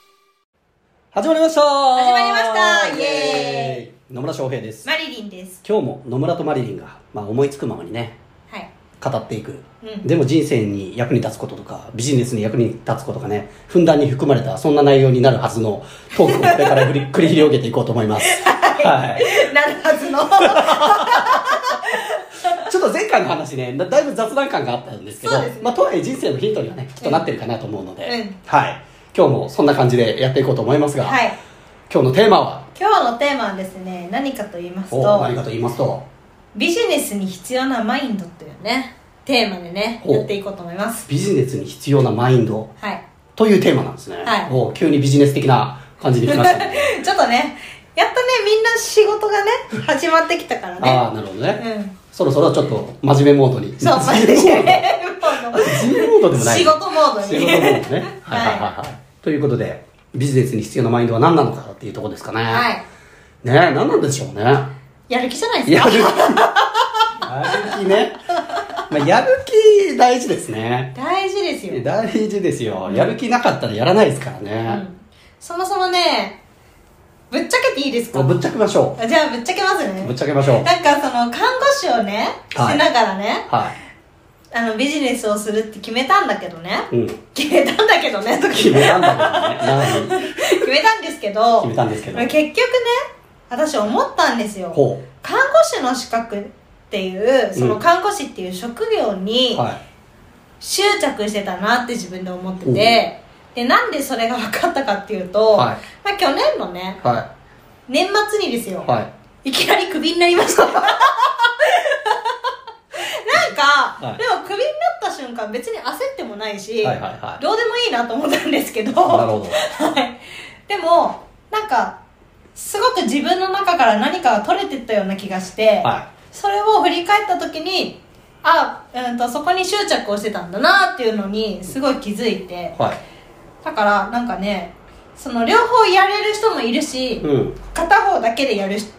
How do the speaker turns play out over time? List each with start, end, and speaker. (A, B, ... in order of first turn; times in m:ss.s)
0:01.1-0:04.9 A
0:02.0-0:03.8 B
0:04.8-0:05.6 B
0:05.6-0:08.2 A
0:09.0-0:19.4 A
0:09.8-0:10.1 B
0:16.2-0:16.9 B
0:18.2-0:22.7 B
0:20.4-0:21.6 A
0:22.6-0:31.2 A
0:25.2-0:25.7 B
0:28.0-0:28.4 B
0:31.0-0:31.4 B
0:31.9-0:32.7 A
0:32.8-0:35.3 B
0:34.9-0:36.0 A
0:36.6-0:41.0 B
0:41.1-0:42.7 A
0:43.4-0:46.9 A
0:44.2-0:44.5 B
0:46.3-0:51.0 B
0:50.8-0:51.6 A
0:51.6-0:52.0 B
0:52.1-1:02.7 A
0:53.8-0:58.7 B
1:02.5-1:02.8 B
1:03.4-1:04.7 A
1:05.1-1:06.8 B
1:05.7-1:06.4 A
1:07.2-1:08.2 A
1:08.9-1:10.9 A
1:11.0-1:11.8 B
1:11.7-1:14.8 A
1:14.7-1:16.4 B
1:17.3-1:18.4 B
1:18.1-1:19.0 A
1:19.0-1:23.5 B
1:20.0-1:20.7 A
1:22.5-1:22.8 A
1:23.5-1:23.8 A
1:24.5-1:33.0 B
1:26.9-1:27.2 A
1:28.5-1:30.3 A
1:31.6-1:32.4 A
1:33.5-1:39.6 B
1:34.7-1:35.0 A
1:39.5-1:39.8 A
1:40.6-1:47.0 B
1:42.6-1:43.0 A
1:45.5-1:45.8 A
1:47.0-1:47.3 A
1:47.9-1:48.9 B
1:48.8-1:49.1 A
1:49.4-1:52.4 B
1:50.6-1:50.9 A
1:53.0-2:02.0 B
1:56.8-1:57.4 A
1:59.0-1:59.6 A
2:02.6-2:12.8 B
2:05.8-2:06.1 A
2:13.6-2:18.9 B
2:17.2-2:17.6 A